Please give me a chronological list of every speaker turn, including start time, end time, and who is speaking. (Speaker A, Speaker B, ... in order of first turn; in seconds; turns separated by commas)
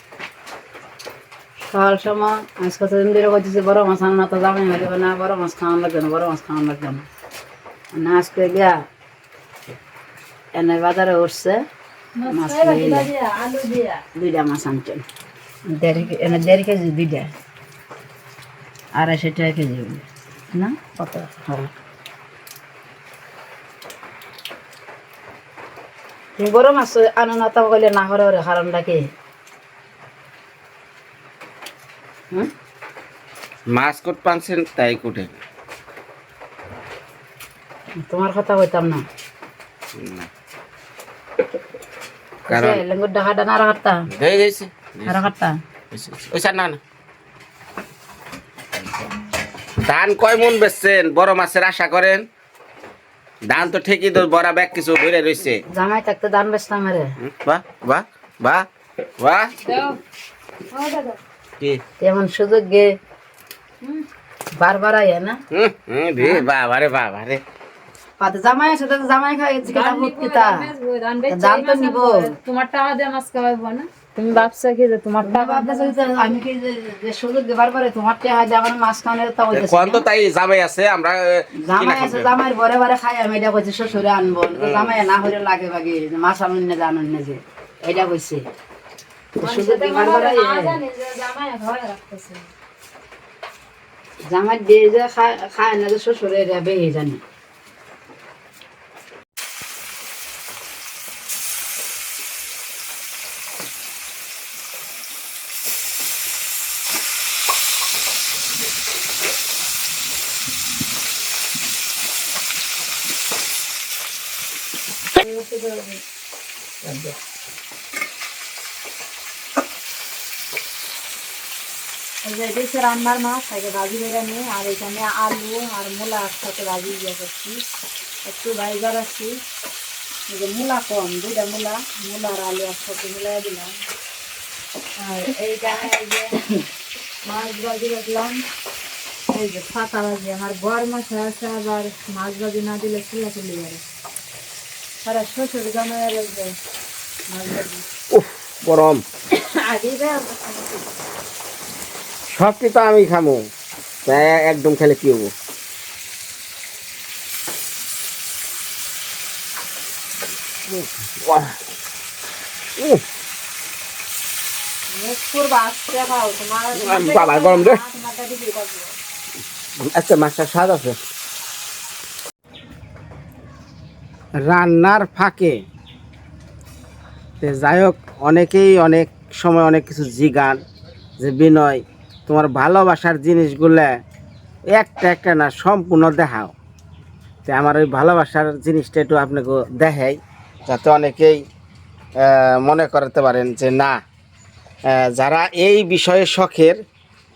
Speaker A: 1.7-7.1, Speaker A: 7.9-8.9, Speaker A: 10.5-11.7, Speaker B: 12.2-14.1, Speaker A: 12.3-13.1, Speaker A: 14.2-15.1, Speaker A: 15.7-17.3, Speaker B: 15.9-16.5, Speaker A: 18.9-21.7, Speaker A: 26.4-29.1, Speaker C: 33.7-35.4, Speaker A: 38.0-39.1, Speaker C: 40.0-40.3, Speaker A: 42.5-44.1, Speaker C: 42.5-42.8, Speaker C: 44.1-45.3, Speaker A: 45.1-45.6, Speaker C: 45.9-46.8, Speaker C: 49.8-52.3, Speaker C: 53.5-55.6, Speaker A: 55.7-57.2, Speaker C: 57.2-58.7, Speaker C: 59.2-59.5, Speaker B: 59.6-60.0, Speaker B: 60.7-61.2, Speaker A: 62.0-63.0, Speaker B: 63.8-64.1, Speaker A: 64.6-65.4, Speaker C: 65.5-67.4, Speaker A: 68.2-70.7, Speaker B: 69.7-76.4, Speaker A: 71.3-72.3, Speaker A: 75.2-80.0, Speaker C: 79.5-82.3, Speaker A: 81.6-88.5, Speaker C: 84.6-85.0, Speaker A: 89.4-90.8, Speaker B: 89.4-92.5, Speaker A: 94.3-97.2, Speaker B: 115.2-116.0, Speaker B: 122.2-127.6, Speaker B: 128.2-129.4, Speaker B: 130.3-133.7, Speaker B: 135.0-136.4, Speaker B: 137.2-138.4, Speaker B: 139.3-143.8, Speaker B: 145.0-146.6, Speaker B: 147.3-147.8, Speaker C: 148.1-149.0, Speaker B: 149.3-150.8, Speaker C: 152.3-153.4, Speaker C: 154.1-155.3, Speaker C: 161.2-161.6, Speaker B: 164.9-168.9, Speaker C: 166.8-167.8, Speaker C: 169.8-171.0, Speaker C: 174.4-175.6, Speaker C: 177.4-180.6, Speaker C: 181.2-184.0, Speaker C: 184.7-186.5, Speaker C: 187.4-191.4, Speaker C: 192.2-194.0, Speaker C: 194.9-196.8